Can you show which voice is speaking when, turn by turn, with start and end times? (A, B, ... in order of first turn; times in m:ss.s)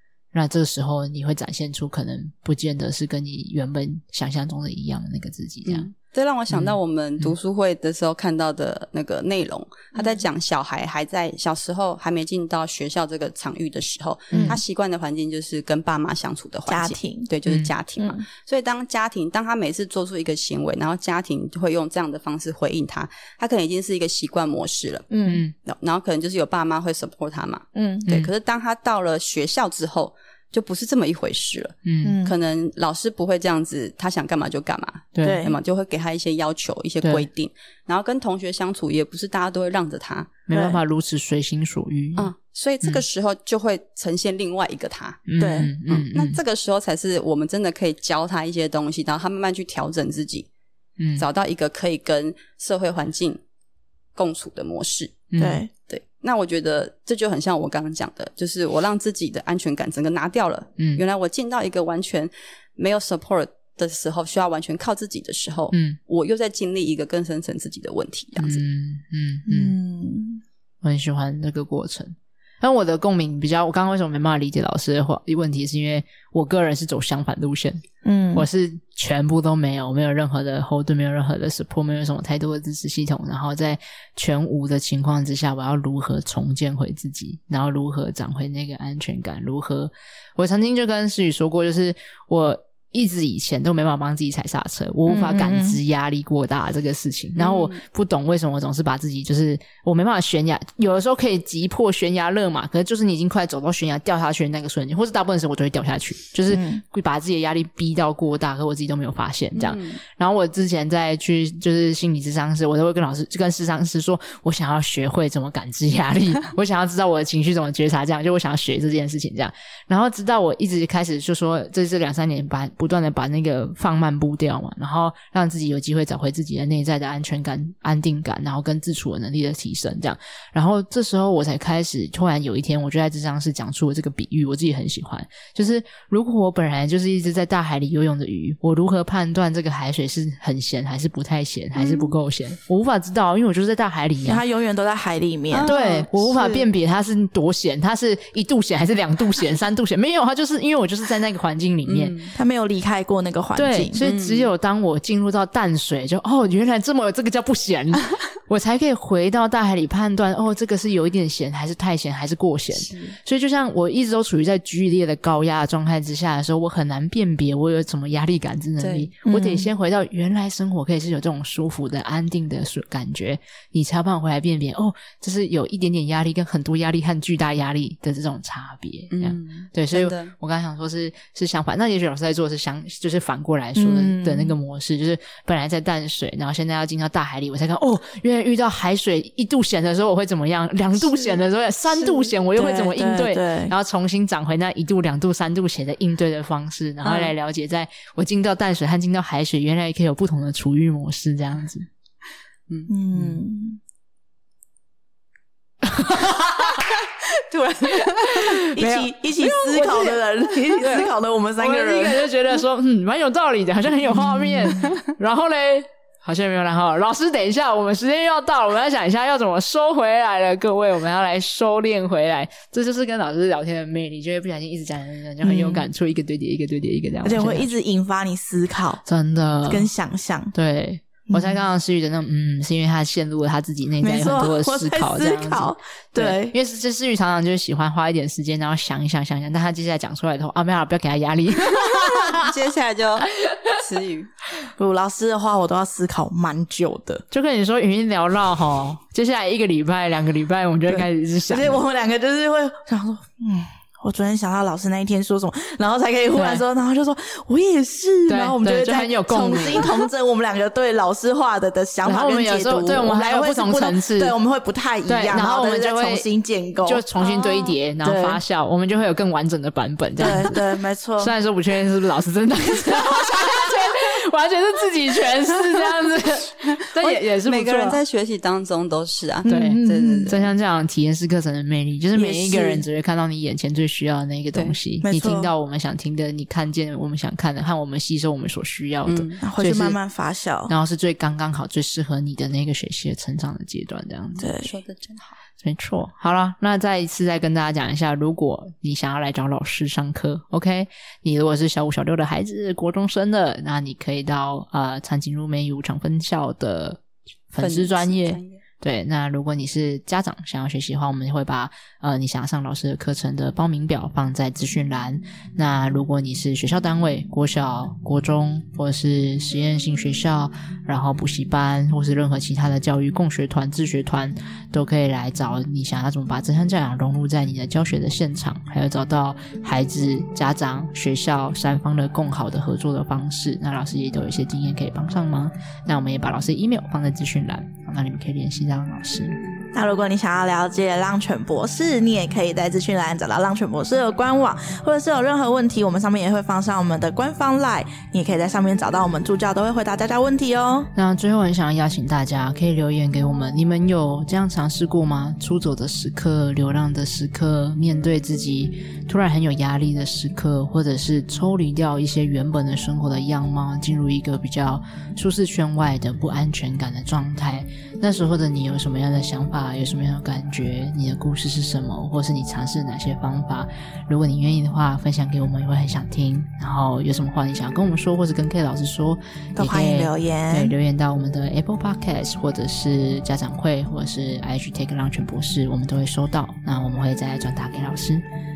0:00.3-0:05.9 A
0:05.6-0:25.1 B
0:06.5-0:07.3 A
0:14.3-0:14.6 A
0:14.3-0:14.6 C
0:16.7-0:17.3 C
0:18.0-0:18.2 C
0:25.1-0:25.4 C
0:25.3-0:25.5 A
0:25.6-0:40.3 B
0:27.8-0:28.1 C
0:28.0-0:28.3 A
0:31.8-0:32.2 A
0:32.0-0:32.4 C
0:35.2-0:35.4 A
0:35.2-0:35.6 C
0:40.5-0:42.3 A
0:40.5-0:40.8 C
0:42.2-0:45.2 B
0:45.3-0:46.4 A
0:45.4-0:45.7 C
0:45.9-0:50.5 B
0:51.0-0:51.2 A
0:51.2-0:53.4 B
0:54.2-0:55.2 B
0:55.3-0:55.6 A
0:55.4-0:55.7 C
0:55.9-1:08.6 B
1:00.8-1:01.0 A
1:05.7-1:06.0 A
1:08.4-1:09.8 A
1:09.5-1:10.4 C
1:10.8-1:17.8 A
1:18.0-1:18.5 C
1:18.3-2:24.4 A
1:35.1-1:35.8 C
1:37.4-1:37.8 B
1:46.5-1:46.8 C
1:49.5-1:50.0 B
2:24.2-2:26.6 C
2:25.5-2:26.1 B
2:25.6-2:32.2 A
2:31.9-2:32.3 B
2:32.4-2:34.0 C
2:33.6-3:21.9 A
2:34.0-2:34.5 B
2:42.7-2:43.1 B
2:48.8-2:49.1 B
2:49.2-2:49.7 C
2:59.1-3:00.3 B
3:03.8-3:04.6 C
3:12.5-3:13.7 C
3:22.9-3:23.8 C
3:25.8-3:26.8 A
3:27.2-3:28.6 B
3:28.1-3:29.1 A
3:28.6-3:32.3 C
3:29.7-3:30.1 A
3:29.8-3:30.1 B
3:30.8-3:31.1 A
3:30.8-3:31.1 B
3:31.6-3:47.7 A
3:34.3-3:34.9 C
3:45.4-3:45.9 C
3:47.2-3:49.0 C
3:49.1-3:49.9 A
3:49.7-3:50.5 C
3:50.5-4:02.5 A
3:51.3-3:51.6 C
3:54.0-3:56.6 C
4:02.2-4:04.3 B
4:03.4-4:03.8 A
4:04.8-4:07.2 C
4:07.3-4:11.8 A
4:10.9-4:28.4 C
4:16.4-4:16.6 A
4:18.3-4:20.0 A
4:22.0-4:24.3 A
4:25.1-4:26.3 A
4:26.9-4:30.6 A
4:30.2-4:31.3 C
4:31.2-4:38.0 A
4:33.1-4:33.5 C
4:36.6-4:40.5 B
4:39.4-4:40.3 C
4:39.5-4:50.0 A
4:42.2-4:42.8 C
4:45.0-4:45.5 C
4:49.1-4:49.4 B
4:49.4-4:50.7 C
4:50.7-4:54.5 A
4:54.4-4:55.4 B
4:54.4-4:54.7 C
4:55.6-5:07.0 A
5:07.5-5:39.4 A
5:07.6-5:08.6 B
5:39.7-5:50.9 C
5:51.0-6:28.2 A
6:19.6-6:20.7 C